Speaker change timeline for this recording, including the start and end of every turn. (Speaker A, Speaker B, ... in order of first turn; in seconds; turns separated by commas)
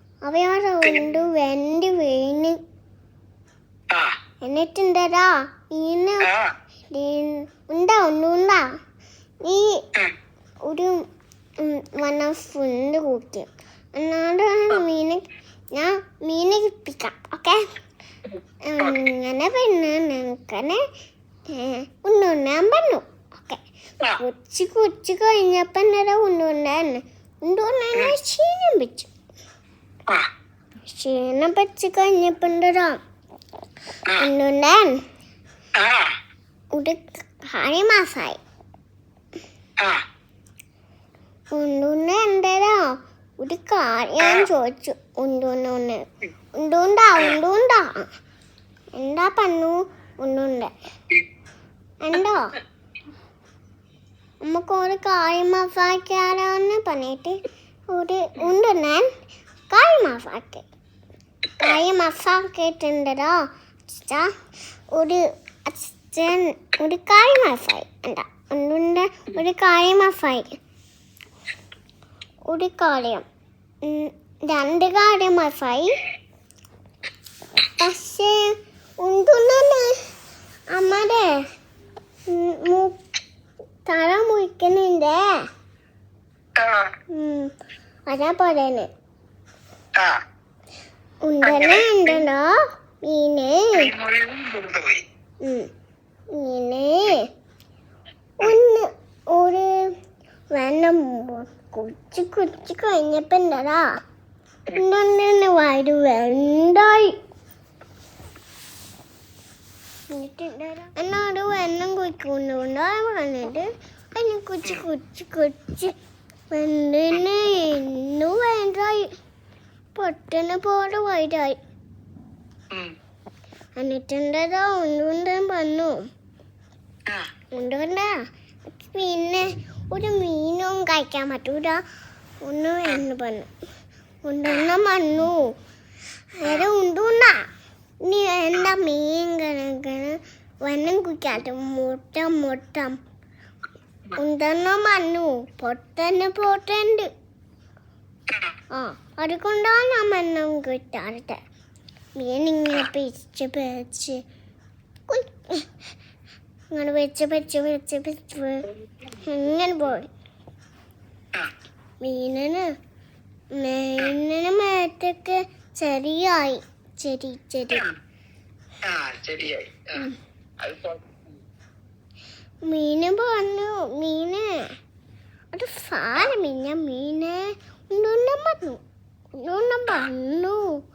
Speaker A: 0.2-2.6, Speaker B: 0.8-1.1, Speaker A: 4.4-6.3, Speaker B: 6.2-6.5, Speaker A: 6.9-8.6, Speaker A: 9.4-9.8, Speaker A: 10.7-11.0, Speaker A: 11.6-17.6, Speaker A: 18.6-20.8, Speaker A: 21.5-23.6, Speaker A: 24.2-29.1, Speaker A: 30.9-33.0, Speaker A: 34.2-35.0, Speaker B: 35.8-36.1, Speaker A: 36.7-38.4, Speaker A: 41.5-46.0, Speaker B: 44.2-44.5, Speaker A: 46.5-48.0, Speaker A: 48.9-50.7, Speaker A: 52.0-52.5, Speaker A: 54.4-59.0, Speaker A: 59.7-60.6, Speaker A: 61.6-63.4, Speaker A: 63.9-64.3, Speaker A: 64.9-70.5, Speaker A: 72.5-73.2, Speaker A: 73.8-76.0, Speaker A: 77.8-80.0, Speaker A: 80.7-81.3, Speaker A: 82.3-83.0, Speaker A: 83.8-85.2, Speaker B: 86.6-86.9, Speaker A: 87.1-87.5, Speaker A: 88.1-88.9, Speaker A: 91.2-93.7, Speaker B: 91.5-92.2, Speaker B: 93.8-95.0, Speaker A: 95.4-95.7, Speaker A: 96.3-97.3, Speaker A: 98.4-99.7, Speaker A: 100.5-103.8, Speaker A: 104.8-107.1, Speaker A: 110.1-115.9, Speaker A: 116.5-119.1, Speaker A: 119.9-121.6, Speaker A: 123.8-126.0, Speaker A: 127.5-128.1, Speaker A: 128.8-131.8, Speaker A: 132.4-133.5, Speaker A: 134.2-135.5, Speaker A: 136.4-137.4, Speaker B: 136.4-136.7, Speaker A: 138.1-142.9, Speaker A: 144.2-147.1, Speaker A: 148.7-151.4, Speaker A: 152.2-154.2, Speaker A: 155.1-155.7, Speaker A: 156.7-158.6, Speaker B: 158.7-159.2, Speaker A: 159.2-160.1, Speaker A: 162.0-162.7, Speaker A: 163.5-167.8, Speaker B: 168.9-170.0, Speaker B: 170.6-171.3, Speaker A: 172.7-174.7, Speaker A: 175.5-178.8, Speaker A: 179.4-180.6